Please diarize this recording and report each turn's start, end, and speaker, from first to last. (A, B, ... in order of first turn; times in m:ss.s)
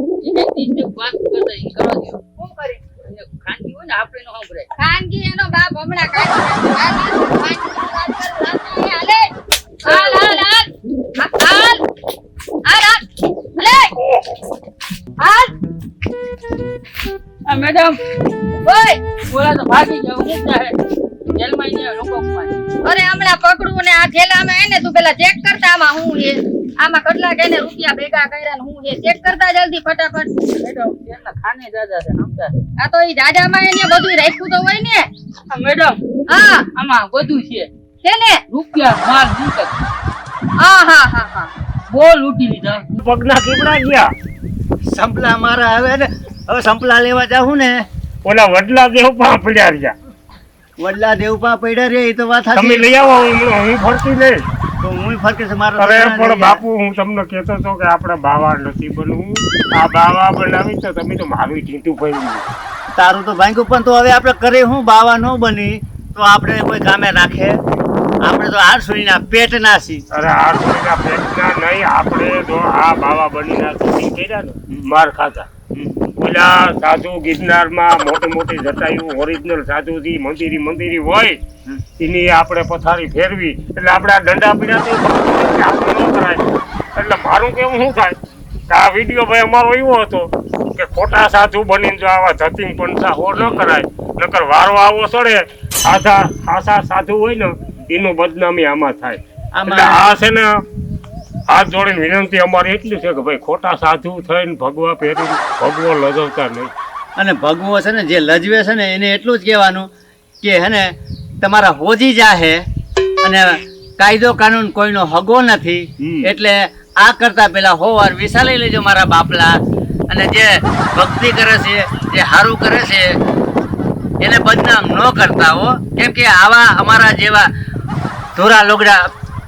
0:00.2-0:04.7 A
0:02.4-0:02.8 B
0:04.8-0:09.3 B
0:09.8-0:10.4 A
0:09.8-0:10.7 B
0:11.2-0:11.8 B
0:12.6-0:13.0 B
0:13.6-0:13.9 B
0:14.0-0:14.3 C
0:15.2-0:15.5 B
0:17.5-0:18.0 A
0:18.6-0:19.0 B
0:19.3-0:20.8 A
0:21.4-0:22.6 A
0:22.8-0:30.3 B
0:30.6-0:32.6 A
0:32.8-0:35.1 B
0:35.5-0:36.0 A
0:36.3-0:36.7 B
0:36.7-0:37.7 A
0:38.0-0:38.4 B
0:38.5-0:39.7 A
0:40.6-0:41.5 B
0:41.9-0:42.9 A
0:43.0-0:44.1 C
0:44.9-0:47.8 D
0:48.2-0:49.9 C
0:50.8-0:52.9 D
0:52.5-0:54.4 C
0:54.8-0:56.6 D
0:55.8-1:02.4 C
1:03.0-1:07.6 D
1:08.2-1:10.0 D
1:10.1-1:15.5 C
1:15.7-1:16.0 D
1:16.2-1:21.4 C
1:22.0-1:26.4 C
1:27.0-1:28.2 C
1:28.7-1:40.5 C
1:39.6-1:40.1 D
1:41.5-1:46.7 C
1:47.2-1:49.9 D
1:50.4-1:52.6 D
1:53.2-2:03.2 D
1:56.0-1:56.3 C
2:04.2-2:07.5 D
2:08.4-2:09.1 D